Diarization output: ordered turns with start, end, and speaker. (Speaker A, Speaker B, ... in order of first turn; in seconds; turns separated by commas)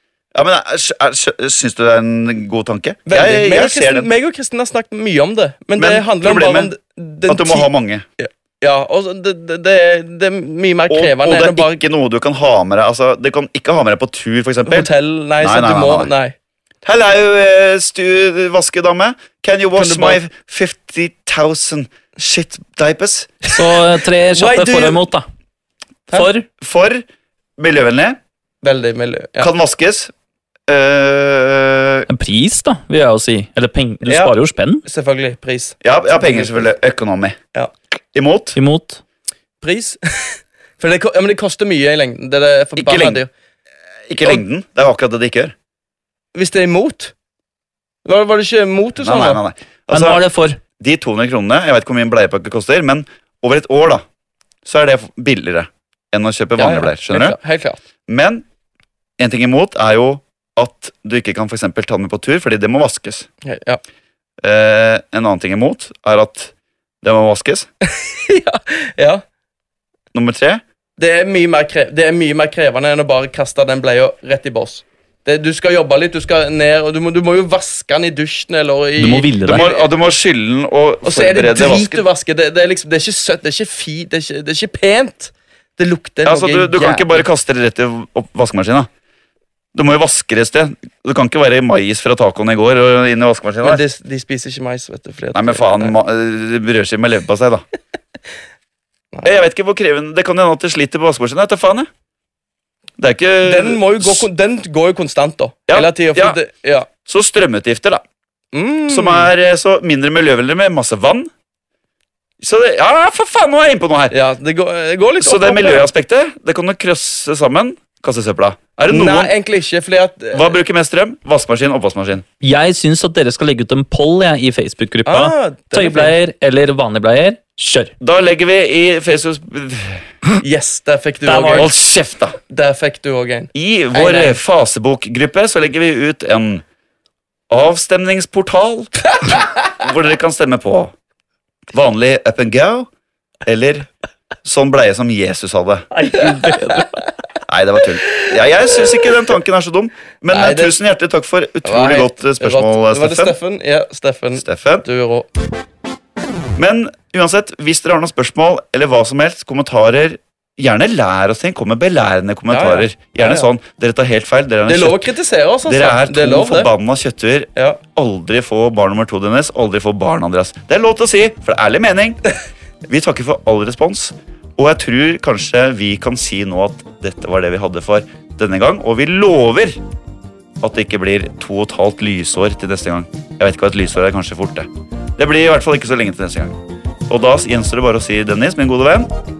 Speaker A: 0.3-4.1, Speaker B: 3.1-11.8, Speaker A: 5.8-6.7, Speaker A: 7.3-8.0, Speaker A: 10.9-14.9, Speaker B: 14.7-16.3, Speaker A: 15.4-16.1, Speaker A: 16.8-23.3, Speaker B: 19.7-20.2, Speaker B: 23.4-23.8, Speaker C: 23.5-25.2, Speaker B: 24.3-25.0, Speaker C: 26.1-26.5, Speaker A: 26.6-27.0, Speaker A: 27.6-28.2, Speaker B: 28.6-29.5, Speaker A: 29.4-30.1, Speaker A: 30.7-32.1, Speaker C: 32.1-34.8, Speaker B: 34.0-36.7, Speaker A: 35.8-37.4, Speaker A: 38.1-38.6, Speaker C: 38.5-39.0, Speaker B: 39.6-43.3, Speaker A: 42.8-43.2, Speaker A: 44.1-45.5, Speaker B: 46.3-47.1, Speaker B: 48.0-49.4, Speaker A: 49.0-50.2, Speaker C: 49.9-50.6, Speaker A: 50.8-54.0, Speaker A: 54.6-57.4, Speaker B: 56.6-57.8, Speaker A: 58.1-58.4, Speaker A: 59.2-63.3, Speaker B: 63.4-63.8, Speaker A: 64.4-67.7, Speaker B: 67.8-69.2, Speaker A: 70.1-70.6, Speaker B: 71.0-79.8, Speaker C: 79.0-79.6, Speaker A: 79.5-82.0, Speaker B: 81.0-87.2, Speaker A: 86.2-88.9, Speaker A: 89.7-93.8, Speaker B: 93.6-96.0, Speaker A: 95.3-97.6, Speaker A: 99.2-101.9, Speaker A: 103.0-104.2, Speaker B: 103.4-106.9, Speaker A: 105.7-106.4, Speaker A: 107.0-108.0, Speaker B: 108.5-109.3, Speaker A: 108.9-111.3, Speaker A: 112.4-114.1, Speaker B: 114.1-115.9, Speaker A: 115.2-119.3, Speaker B: 118.8-120.5, Speaker A: 120.3-122.2, Speaker C: 122.4-127.9, Speaker B: 125.0-126.1, Speaker A: 128.0-130.1, Speaker B: 130.4-131.7, Speaker C: 131.2-131.7, Speaker A: 131.6-132.4, Speaker B: 132.5-134.4, Speaker A: 133.5-136.6, Speaker A: 137.5-140.9, Speaker A: 141.7-142.9, Speaker A: 143.4-143.9, Speaker A: 144.4-145.9, Speaker C: 145.9-147.0, Speaker B: 146.5-146.8, Speaker A: 147.4-153.3, Speaker B: 150.3-150.7, Speaker B: 151.6-155.3, Speaker A: 154.4-154.8, Speaker A: 156.6-165.1, Speaker B: 162.5-163.5, Speaker B: 164.7-166.7, Speaker A: 165.7-172.2, Speaker A: 172.9-179.8, Speaker A: 180.6-189.1